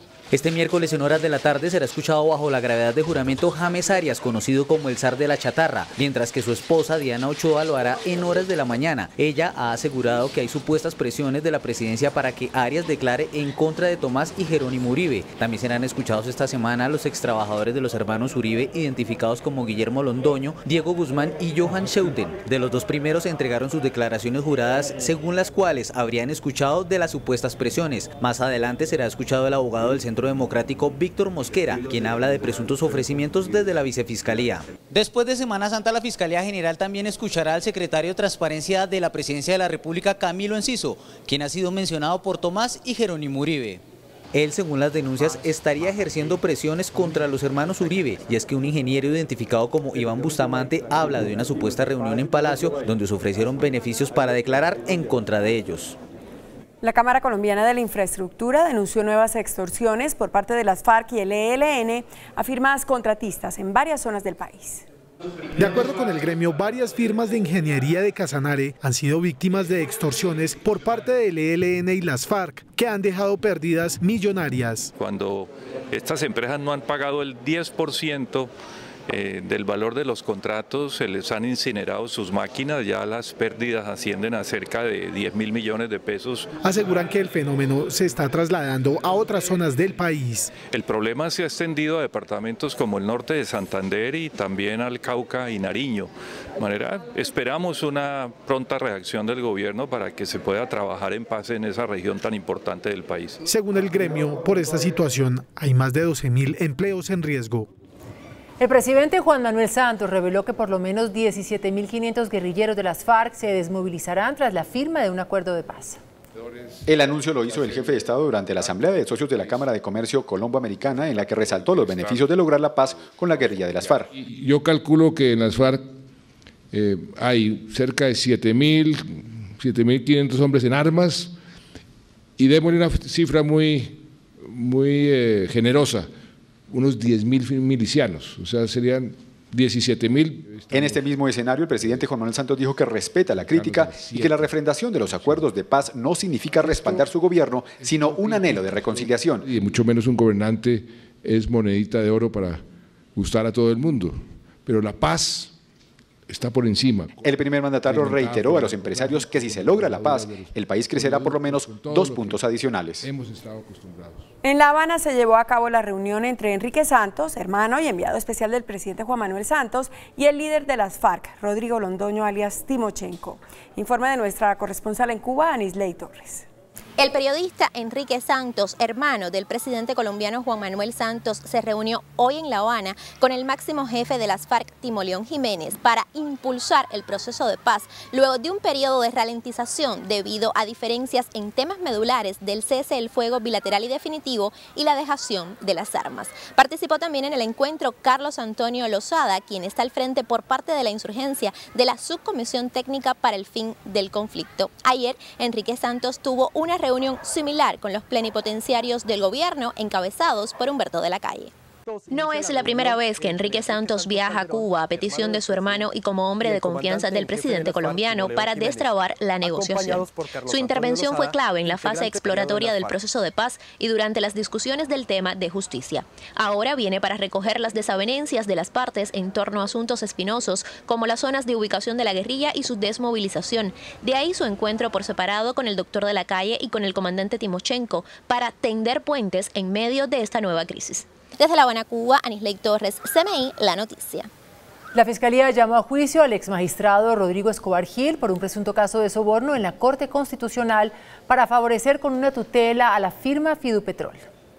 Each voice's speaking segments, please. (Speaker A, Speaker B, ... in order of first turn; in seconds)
Speaker A: 0.3-56.0
Speaker B: 56.8-64.9, 164.4-176.4
Speaker C: 65.6-74.9, 86.6-90.5, 103.4-107.7
Speaker D: 75.0-75.3, 76.0-78.5, 79.4-86.4, 90.8-92.1, 94.8-96.1, 97.3-103.4
Speaker E: 108.6-116.0, 244.9-254.3
Speaker F: 116.8-124.1, 140.7-149.5, 157.2-163.1
Speaker G: 124.1-125.9, 126.7-131.3, 132.4-136.1, 136.7-141.1, 143.4-145.4, 146.6-147.1, 147.8-152.6, 153.1-155.5, 156.3-162.4, 163.0-164.3
Speaker H: 177.0-211.5, 212.1-244.3